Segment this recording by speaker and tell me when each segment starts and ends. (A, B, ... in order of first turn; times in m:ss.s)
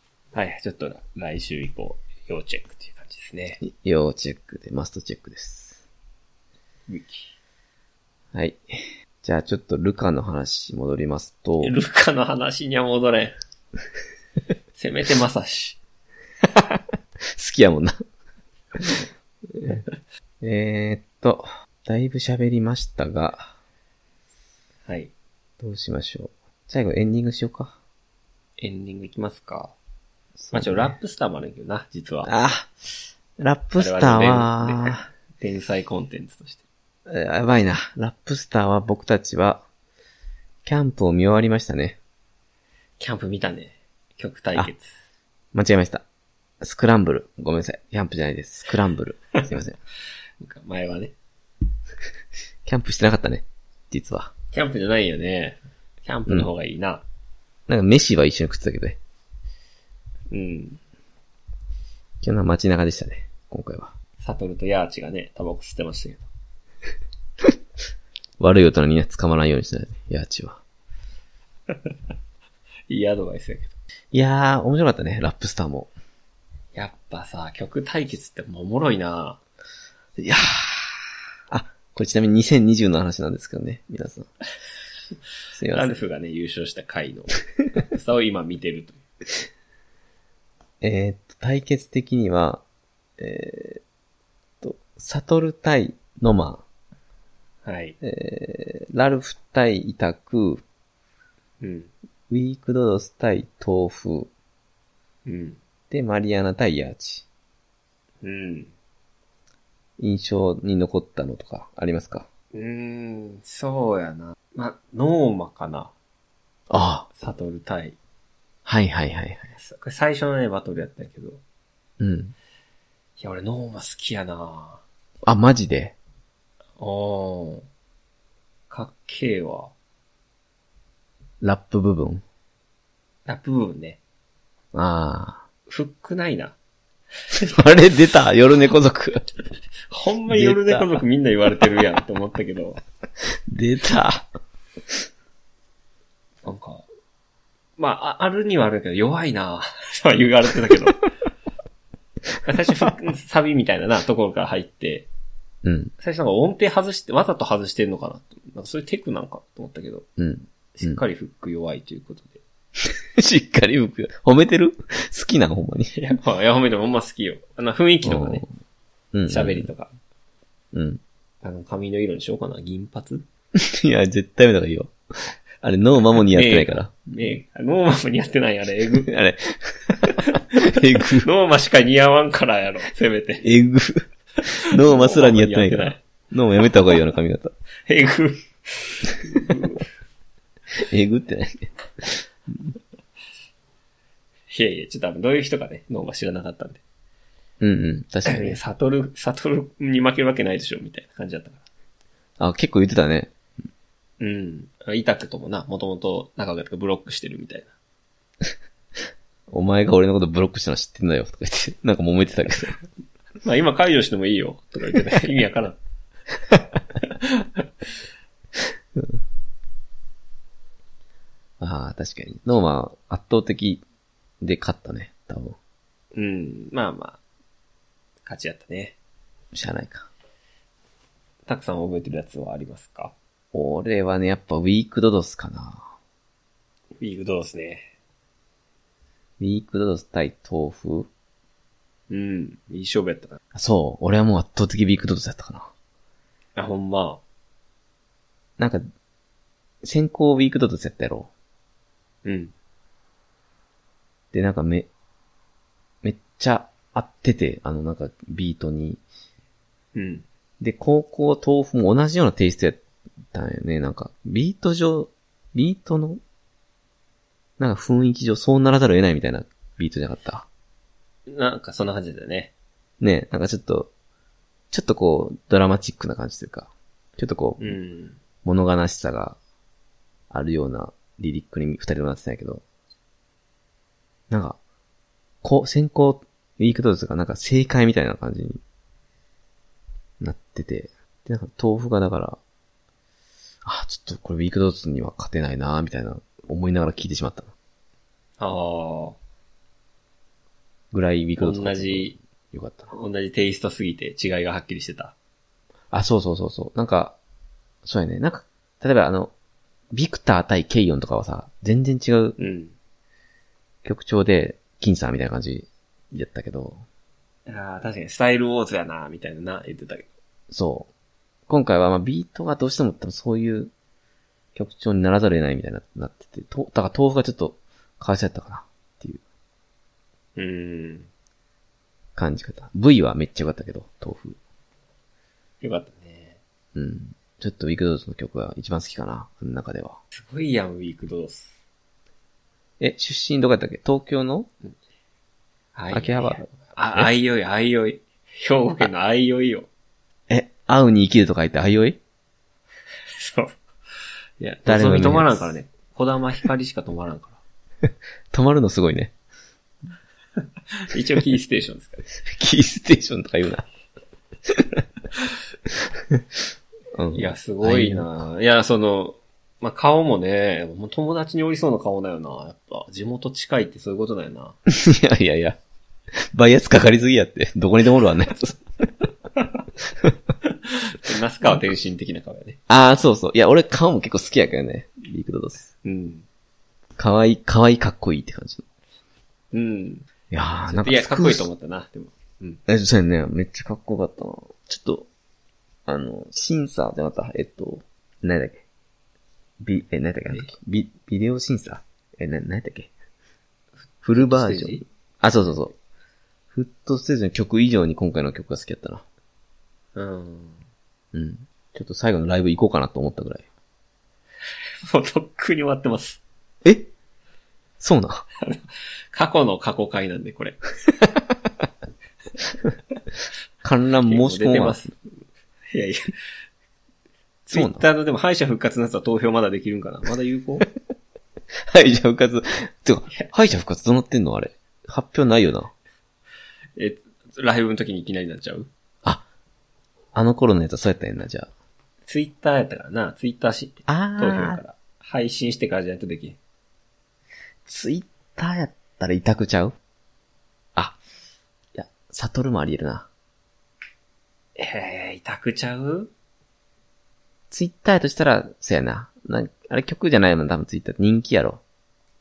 0:00.3-0:03.6 A
0:03.6-0:05.8 B
0:06.9-0:07.3 A
0:08.3-0:11.8 B
0:11.6-0:13.4 A
0:14.8-0:15.8 A
0:17.4-0:18.0 B
0:19.5-0:19.8 B
0:20.4-0:23.6 B
0:24.9-0:25.1 A
0:25.6-0:27.8 B
0:28.6-0:29.8 A
0:30.4-0:30.9 B
0:30.5-0:32.3 A
0:32.3-0:32.7 B
0:33.4-0:35.0 B
0:33.8-0:36.6 A
0:37.1-0:39.6 B
0:40.6-0:42.0 B
0:43.0-0:45.0 A
0:45.5-0:46.0 B
0:46.6-0:49.8 B
0:50.4-0:51.1 A
0:52.6-0:54.3 B
0:54.5-0:57.0 A
0:57.7-0:59.0 B
1:00.3-1:00.8 A
1:02.2-1:03.9 B
1:04.2-1:06.3 A
1:08.4-1:10.6 B
1:12.9-1:13.8 A
1:14.1-1:15.9 B
1:16.8-1:19.4 A
1:20.2-1:24.3 B
1:25.5-1:26.0 B
1:25.7-1:29.0 A
1:30.8-1:32.6 B
1:33.2-1:33.8 B
1:34.6-1:36.6 B
1:37.6-1:38.0 A
1:38.0-1:40.6 B
1:41.6-1:41.9 A
1:42.3-1:44.3 B
1:45.3-1:45.6 A
1:45.9-1:47.2 B
1:48.2-1:48.7 A
1:50.0-1:52.3 B
1:52.5-1:55.9 A
1:56.7-1:57.1 B
1:57.2-1:58.0 A
1:58.6-1:59.5 B
1:59.5-2:01.4 A
2:02.0-2:02.4 B
2:03.2-2:04.8 A
2:05.2-2:06.0 B
2:06.8-2:07.7 A
2:08.7-2:09.7 A
2:11.4-2:12.2 B
2:13.3-2:14.0 A
2:14.7-2:15.4 B
2:15.7-2:16.6 A
2:17.3-2:17.6 A
2:17.4-2:19.2 B
2:19.9-2:22.8 A
2:20.3-2:21.0 B
2:23.5-2:24.3 B
2:26.4-2:26.9 A
2:27.8-2:31.0 A
2:32.4-2:35.1 A
2:35.6-2:35.9 B
2:36.0-2:40.1 A
2:40.2-2:41.0 B
2:40.8-2:42.4 A
2:42.9-2:46.0 B
2:46.0-2:48.4 A
2:48.0-2:48.4 B
2:49.1-2:49.7 B
2:49.3-2:49.9 A
2:50.7-2:51.0 B
2:51.4-2:53.2 A
2:53.6-2:57.1 B
2:56.3-2:59.1 A
2:59.1-3:01.3 B
3:00.0-3:03.4 A
3:03.4-3:07.5 B
3:04.7-3:06.0 A
3:07.9-3:09.8 A
3:10.8-3:12.7 B
3:14.5-3:16.8 A
3:17.6-3:18.6 B
3:18.2-3:21.6 A
3:22.4-3:23.3 B
3:24.2-3:27.7 A
3:29.5-3:32.8 B
3:33.4-3:35.8 A
3:37.0-3:37.6 A
3:39.0-3:39.2 B
3:41.6-3:43.8 B
3:44.4-3:45.6 B
3:46.1-3:47.2 A
3:48.3-3:49.0 A
3:49.5-3:50.1 B
3:51.5-3:53.1 A
3:53.5-3:55.9 B
3:57.0-3:57.9 A
3:59.4-4:01.1 B
4:02.1-4:03.4 A
4:03.5-4:05.7 B
4:06.6-4:07.2 A
4:08.6-4:08.8 B
4:09.8-4:11.3 B
4:12.2-4:12.5 A
4:14.3-4:14.9 B
4:16.0-4:19.0 B
4:20.0-4:20.2 A
4:20.6-4:22.8 B
4:23.3-4:26.2 B
4:27.6-4:30.5 B
4:31.3-4:32.5 A
4:33.0-4:33.9 B
4:34.7-4:37.8 B
4:37.6-4:38.2 A
4:38.4-4:39.4 B
4:40.3-4:42.6 B
4:44.3-4:44.6 B
4:45.4-4:48.6 B
4:50.2-4:52.4 B
4:53.6-4:57.5 B
4:58.4-4:59.2 A
5:00.9-5:02.9 B
5:01.4-5:02.2 A
5:02.9-5:05.2 A
5:05.9-5:07.2 B
5:07.8-5:09.3 B
5:09.9-5:12.4 B
5:12.4-5:12.8 A
5:13.8-5:16.8 B
5:17.5-5:20.1 A
5:20.5-5:20.9 B
5:21.5-5:23.7 B
5:24.6-5:29.2 B
5:30.4-5:31.1 A
5:32.2-5:34.4 B
5:35.6-5:36.4 A
5:36.8-5:40.0 B
5:40.1-5:41.6 A
5:42.8-5:44.5 B
5:45.8-5:49.7 A
5:45.9-5:47.1 B
5:50.3-5:52.0 B
5:53.1-5:53.6 A
5:54.4-5:57.4 A
5:54.7-5:55.5 B
5:57.9-5:59.1 B
6:00.7-6:02.0 A
6:02.2-6:03.7 B
6:04.5-6:04.8 B
6:06.0-6:06.2 B
6:07.0-6:08.1 B
6:07.1-6:14.6 A
6:14.7-6:15.6 B
6:16.2-6:18.6 B
6:20.4-6:22.6 A
6:22.7-6:25.7 B
6:25.8-6:26.2 A
6:27.0-6:28.6 B
6:29.5-6:30.1 A
6:30.3-6:31.5 B
6:30.7-6:32.6 A
6:32.7-6:35.1 B
6:35.9-6:38.6 B
6:39.6-6:42.9 B
6:44.0-6:45.8 B
6:44.1-6:44.8 A
6:46.5-6:49.0 B
6:50.0-6:50.6 A
6:51.1-6:53.5 B
6:54.8-6:56.2 A
6:56.6-6:56.9 B
6:57.8-6:58.2 B
6:58.4-7:00.6 A
7:03.6-7:04.8 B
7:04.0-7:05.0 A
7:05.7-7:06.1 A
7:07.5-7:07.8 B
7:07.5-7:10.7 A
7:11.7-7:15.7 B
7:16.8-7:18.7 A
7:20.1-7:21.5 B
7:22.1-7:26.4 A
7:23.9-7:24.6 B
7:27.7-7:29.8 B
7:31.8-7:33.1 B
7:34.6-7:36.1 A
7:37.5-7:41.6 B